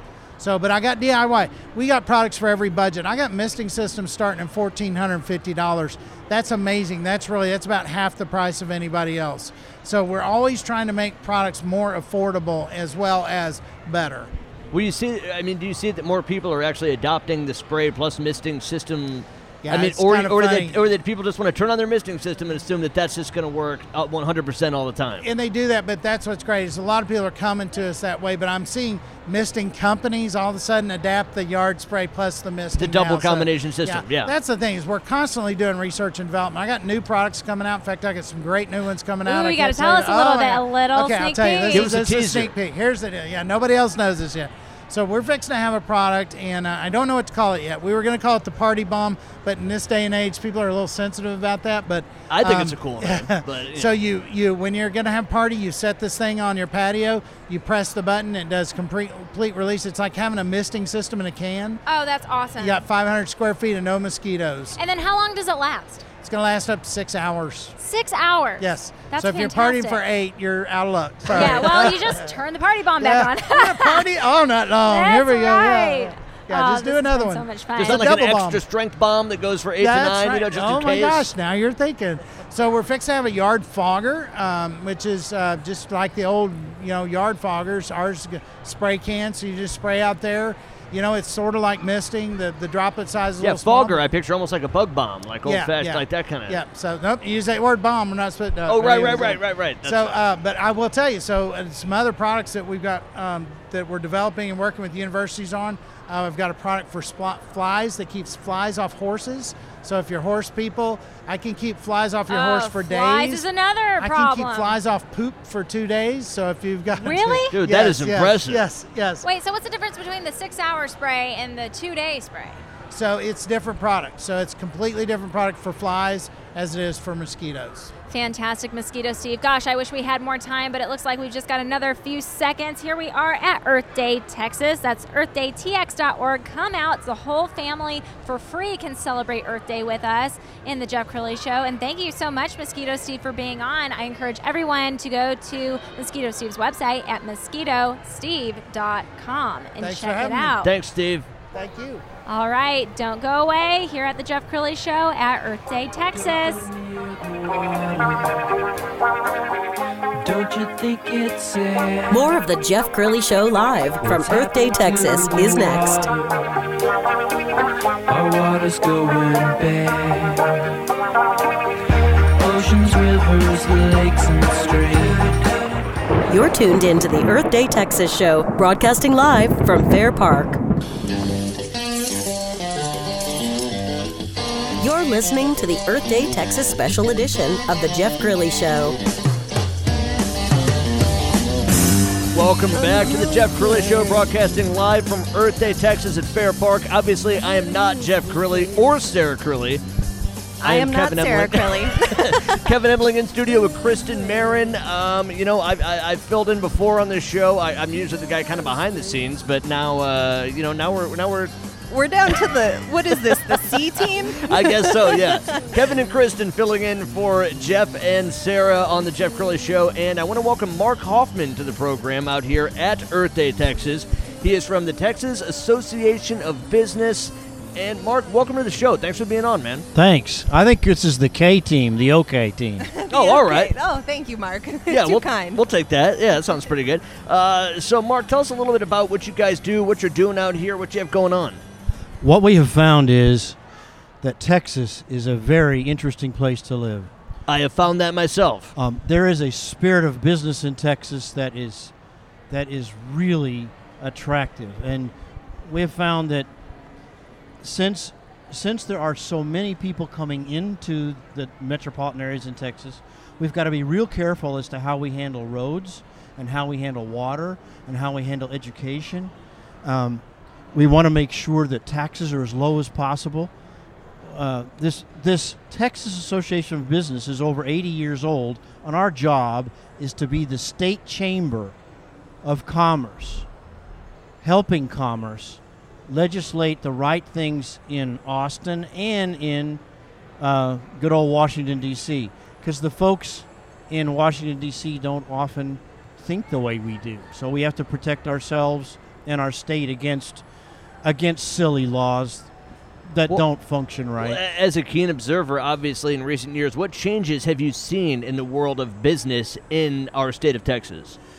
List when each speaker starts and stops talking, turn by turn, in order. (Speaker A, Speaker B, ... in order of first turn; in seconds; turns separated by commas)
Speaker A: 0.4-14.3, Speaker B: 14.7-25.2, Speaker A: 19.6-20.8, Speaker A: 25.2-61.8, Speaker B: 32.8-34.3, Speaker C: 39.2-41.8, Speaker B: 41.7-42.5, Speaker B: 52.3-53.9, Speaker C: 61.9-62.8, Speaker A: 62.6-64.8, Speaker C: 64.8-66.0, Speaker A: 66.2-67.7, Speaker C: 67.8-70.0, Speaker A: 68.6-72.3, Speaker C: 71.3-74.1, Speaker A: 73.0-78.6, Speaker C: 74.8-78.1, Speaker B: 77.8-81.3, Speaker A: 79.8-94.0, Speaker B: 93.4-96.6, Speaker A: 95.4-113.4, Speaker B: 98.7-100.2, Speaker C: 112.3-114.8, Speaker A: 114.0-119.2, Speaker C: 117.0-117.6, Speaker B: 117.5-118.6, Speaker C: 119.2-122.6, Speaker A: 122.9-127.9, Speaker C: 128.1-150.7, Speaker A: 149.8-150.6, Speaker B: 150.6-151.3, Speaker A: 151.5-152.0, Speaker C: 152.3-156.7, Speaker D: 156.1-158.4, Speaker D: 160.2-162.3, Speaker E: 162.1-166.0, Speaker D: 164.0-166.6, Speaker D: 168.1-170.7, Speaker D: 172.4-175.8, Speaker E: 176.3-180.6, Speaker E: 184.8-188.9, Speaker B: 192.3-199.8, Speaker F: 200.6-202.7, Speaker B: 200.6-211.5, Speaker F: 211.9-215.8, Speaker B: 214.4-229.9, Speaker G: 229.9-232.9, Speaker F: 232.8-235.6, Speaker B: 233.1-233.7, Speaker B: 234.9-241.6, Speaker G: 242.2-243.6, Speaker G: 244.2-247.1, Speaker B: 247.5-248.7, Speaker G: 248.8-251.9, Speaker G: 252.5-255.1, Speaker G: 255.6-256.5, Speaker G: 257.6-269.3, Speaker G: 269.8-270.2, Speaker G: 270.7-273.5, Speaker G: 274.2-281.7, Speaker G: 282.4-283.5, Speaker G: 284.4-289.8, Speaker G: 290.4-300.4, Speaker G: 301.0-302.5, Speaker G: 303.1-304.4, Speaker B: 304.2-311.2